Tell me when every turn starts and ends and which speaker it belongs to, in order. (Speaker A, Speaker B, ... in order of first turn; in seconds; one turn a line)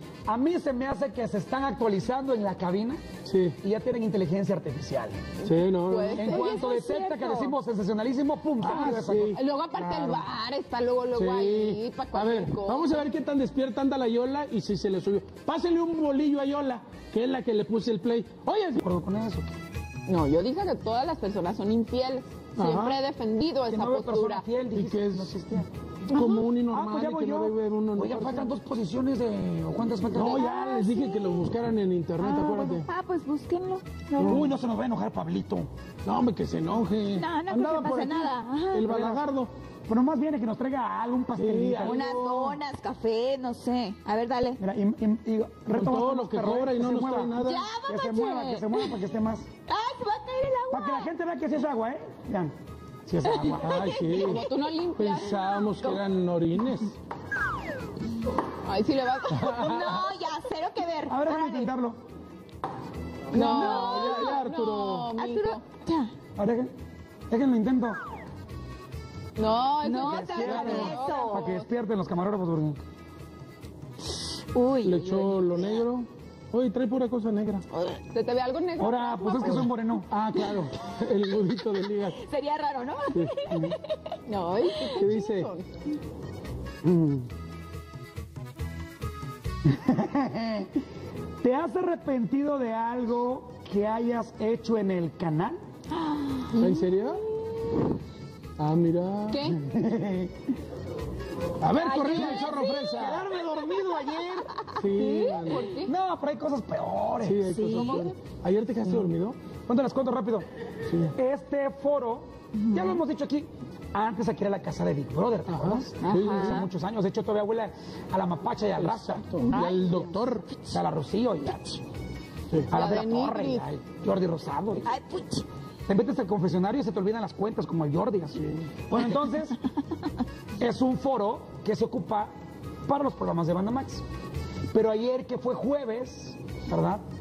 Speaker A: 0.2-3.0
Speaker B: 3.2-3.6
Speaker A: 3.6-5.2
Speaker C: 5.4-6.8
Speaker B: 5.4-6.4
Speaker A: 6.2-9.4
Speaker D: 6.4-7.5
Speaker B: 8.6-10.2
Speaker C: 9.3-13.0
Speaker B: 11.1-18.8
Speaker A: 18.8-19.5
Speaker C: 20.1-24.4
Speaker B: 22.6-23.0
Speaker A: 23.7-25.7
Speaker B: 24.7-25.4
Speaker B: 26.1-28.6
Speaker C: 26.1-26.4
Speaker A: 26.7-30.4
Speaker B: 30.1-32.9
Speaker D: 30.3-31.5
Speaker D: 32.2-34.4
Speaker B: 34.2-34.5
Speaker A: 34.2-35.7
Speaker B: 36.0-39.5
Speaker D: 37.1-39.0
Speaker A: 39.9-42.0
Speaker B: 41.4-42.6
Speaker D: 41.8-44.6
Speaker A: 44.6-49.5
Speaker B: 45.7-47.7
Speaker D: 47.4-49.0
Speaker D: 49.7-51.1
Speaker A: 50.7-52.5
Speaker A: 53.0-53.9
Speaker C: 53.3-56.0
Speaker B: 53.5-54.4
Speaker D: 54.0-54.5
Speaker B: 54.9-56.9
Speaker C: 58.5-59.7
Speaker B: 59.3-60.0
Speaker D: 59.6-61.7
Speaker A: 61.1-62.0
Speaker C: 63.3-65.6
Speaker D: 63.3-64.4
Speaker B: 63.3-65.2
Speaker D: 65.2-66.1
Speaker A: 66.3-66.7
Speaker A: 67.3-68.0
Speaker C: 69.4-71.7
Speaker D: 69.8-71.5
Speaker A: 70.0-72.8
Speaker B: 70.3-71.1
Speaker D: 74.5-75.8
Speaker B: 74.8-77.6
Speaker C: 77.8-79.7
Speaker A: 78.8-80.1
Speaker B: 79.4-82.2
Speaker D: 82.1-83.9
Speaker B: 83.1-83.5
Speaker A: 83.5-83.7
Speaker C: 84.2-85.7
Speaker B: 84.9-85.5
Speaker A: 86.8-87.3
Speaker A: 89.7-90.7
Speaker A: 91.4-95.6
Speaker D: 96.0-96.9
Speaker B: 96.5-97.2
Speaker B: 98.6-99.6
Speaker C: 99.3-99.6
Speaker A: 99.6-100.3
Speaker B: 101.6-103.3
Speaker D: 101.7-103.0
Speaker A: 102.8-104.5
Speaker D: 104.1-104.7
Speaker B: 104.7-105.7
Speaker C: 104.9-105.9
Speaker A: 105.8-107.5
Speaker B: 107.2-109.4
Speaker D: 107.5-108.1
Speaker A: 109.7-110.5
Speaker B: 110.9-111.1
Speaker A: 111.1-120.0
Speaker D: 112.6-113.0
Speaker B: 115.5-116.7
Speaker D: 116.2-116.7
Speaker B: 118.8-120.7
Speaker D: 119.5-120.0
Speaker A: 120.5-121.8
Speaker B: 122.5-122.8
Speaker A: 122.7-124.9
Speaker C: 122.7-123.7
Speaker D: 124.8-125.4
Speaker A: 125.9-129.6
Speaker A: 130.6-132.3
Speaker A: 132.8-134.0
Speaker A: 134.7-137.0